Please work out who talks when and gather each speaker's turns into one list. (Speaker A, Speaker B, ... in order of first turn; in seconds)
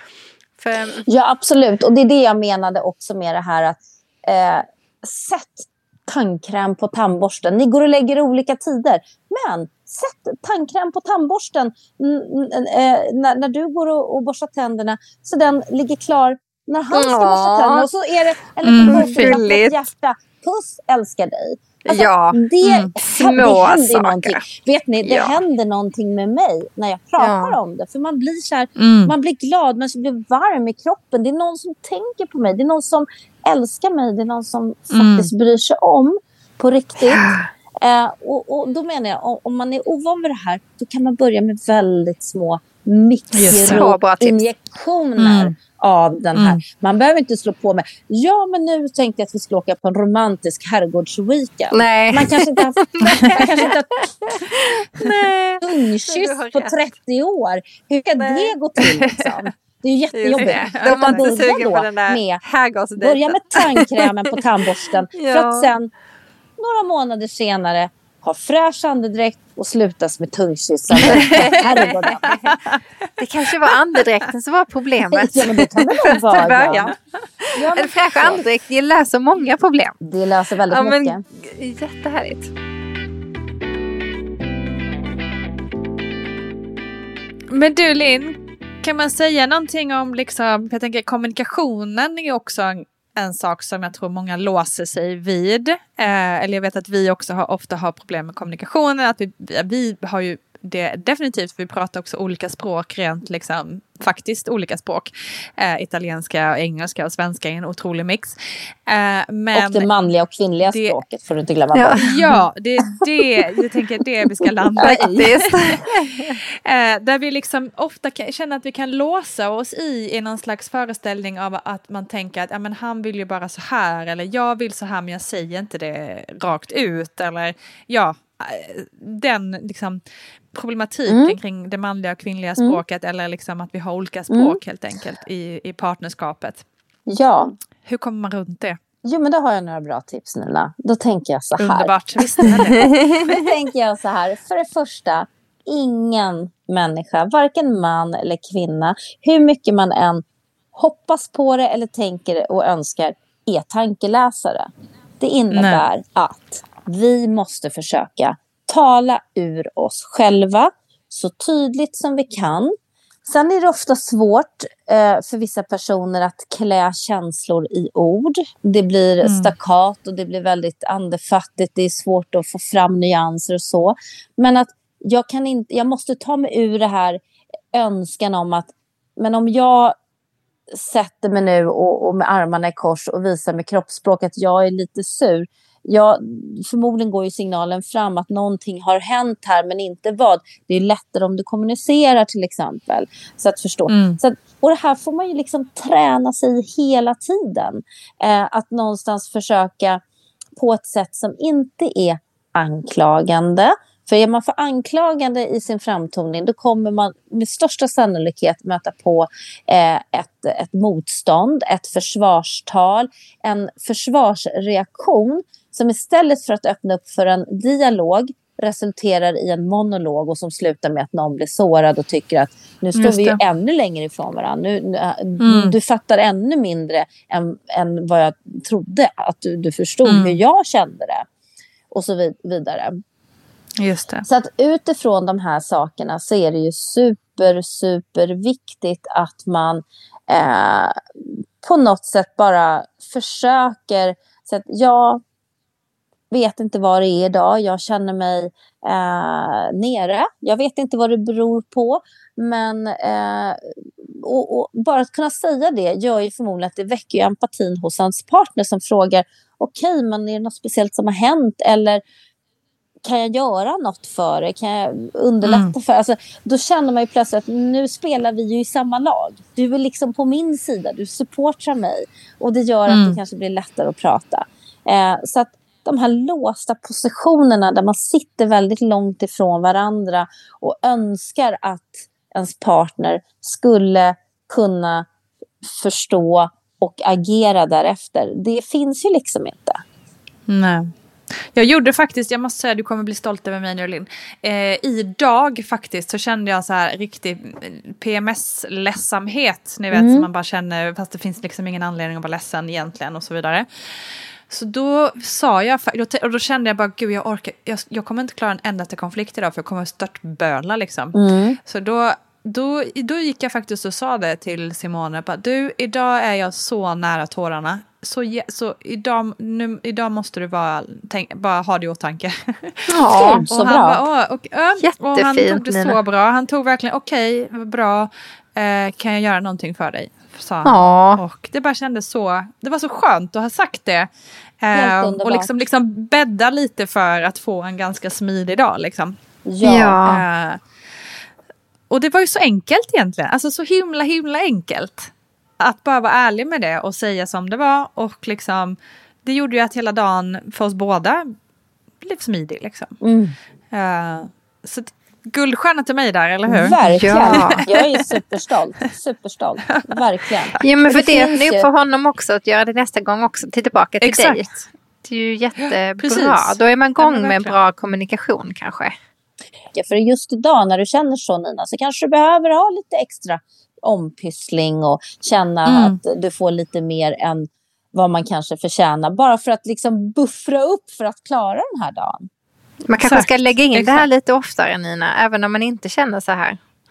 Speaker A: 0.6-1.0, 16.9-17.9, 18.8-19.8, 21.9-22.4, 23.0-24.4, 25.0-25.4, 27.2-27.6, 37.0-37.4, 43.5-44.4, 51.7-56.8, 58.2-58.5, 60.1-63.8, 65.1-65.7, 71.1-72.5, 73.2-79.9, 80.7-82.5, 111.7-112.0, 114.8-116.4, 142.8-143.3, 322.9-323.4, 324.8-326.0, 330.6-331.2, 339.6-340.2, 356.8-357.6, 360.6-364.5, 365.0-368.9, 382.9-386.6
Speaker B: 1.1-54.1, 55.6-62.4, 63.0-65.9, 66.6-72.4, 75.1-76.9, 77.5-78.4, 80.0-81.2, 109.5-112.1, 114.8-115.2, 131.1-131.4, 134.3-134.6, 137.1-137.5, 139.0-150.2, 150.7-162.7, 163.2-177.2, 177.7-179.9, 180.7-200.0, 200.6-231.2, 231.9-233.0, 234.2-245.2, 246.3-262.0, 263.0-285.1, 285.6-289.8, 299.9-300.3, 311.1-311.6, 323.2-324.0, 334.7-335.5, 339.4-340.0, 353.0-353.3, 356.5-361.7, 369.7-382.3
Speaker C: 18.6-19.4, 22.6-22.9, 28.8-29.1, 34.9-35.3, 43.3-43.9, 45.2-45.5, 46.3-46.6, 60.3-61.3, 71.0-71.5, 87.5-109.9, 110.7-111.0, 112.0-115.8, 116.5-130.0, 130.5-136.6, 137.8-138.8, 141.6-142.9, 155.5-155.8, 169.2-169.5, 193.9-194.2, 222.9-223.4, 225.4-225.7, 230.0-230.4, 233.8-234.2, 265.4-265.7, 272.9-273.2, 290.5-334.1, 334.6-339.1, 340.0-340.6, 341.9-351.3, 352.0-353.0, 353.7-358.0, 359.7-360.6, 364.0-364.6, 365.6-367.5, 375.6-376.0, 383.0-384.1